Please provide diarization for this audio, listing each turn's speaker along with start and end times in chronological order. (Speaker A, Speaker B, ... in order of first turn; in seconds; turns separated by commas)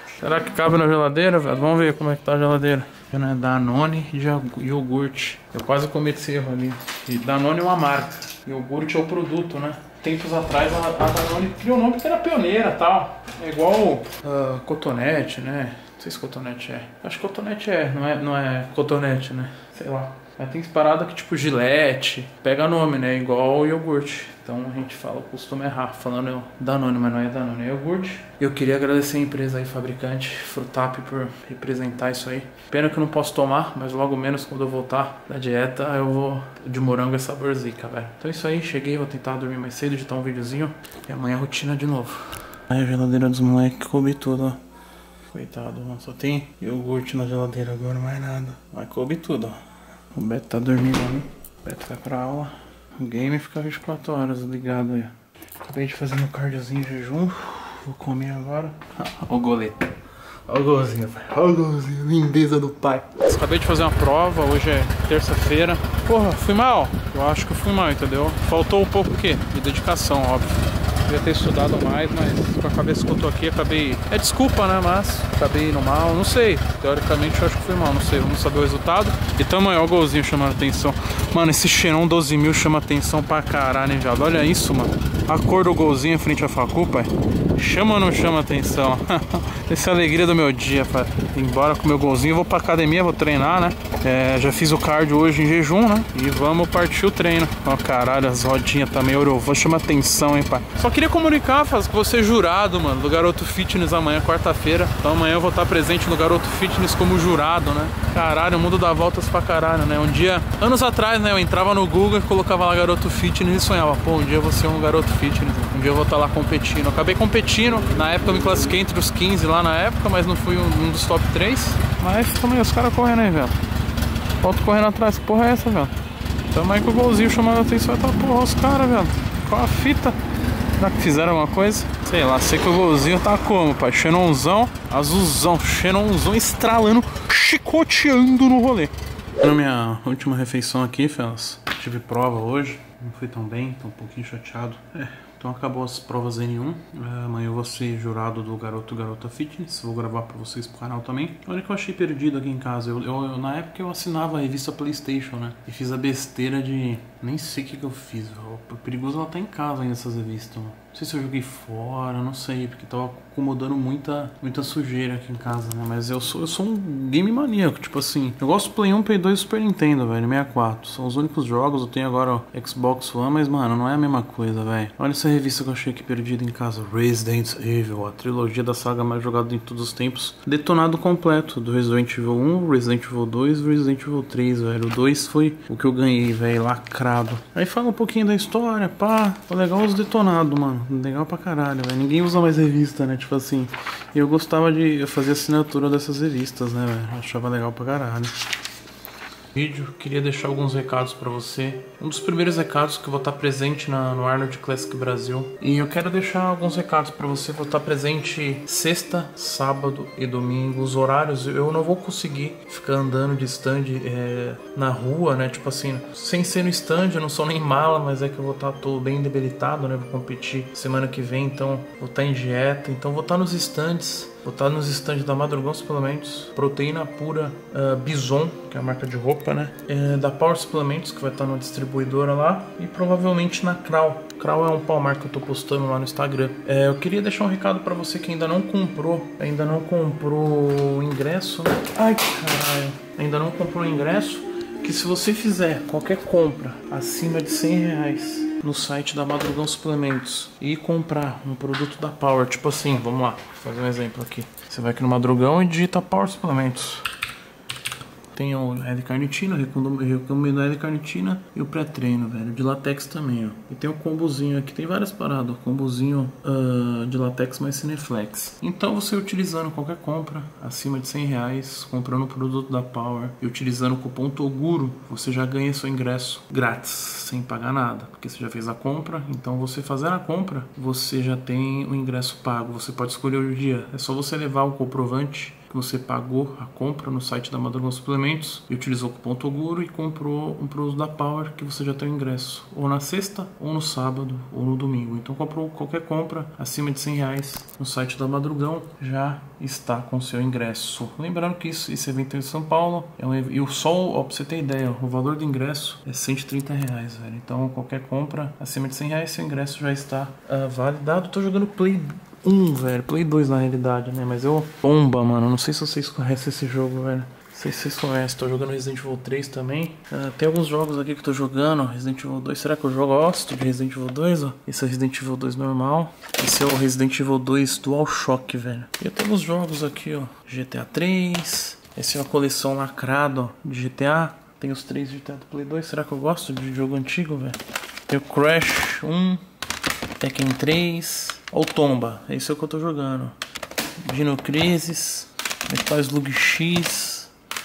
Speaker A: 0.2-44.6, Speaker A: 45.3-49.6, Speaker A: 50.1-59.9, Speaker A: 60.5-123.6, Speaker A: 124.4-125.9, Speaker A: 126.5-130.2, Speaker A: 130.8-198.3, Speaker A: 199.5-257.1, Speaker A: 258.3-339.4, Speaker A: 340.2-343.4, Speaker A: 344.0-347.3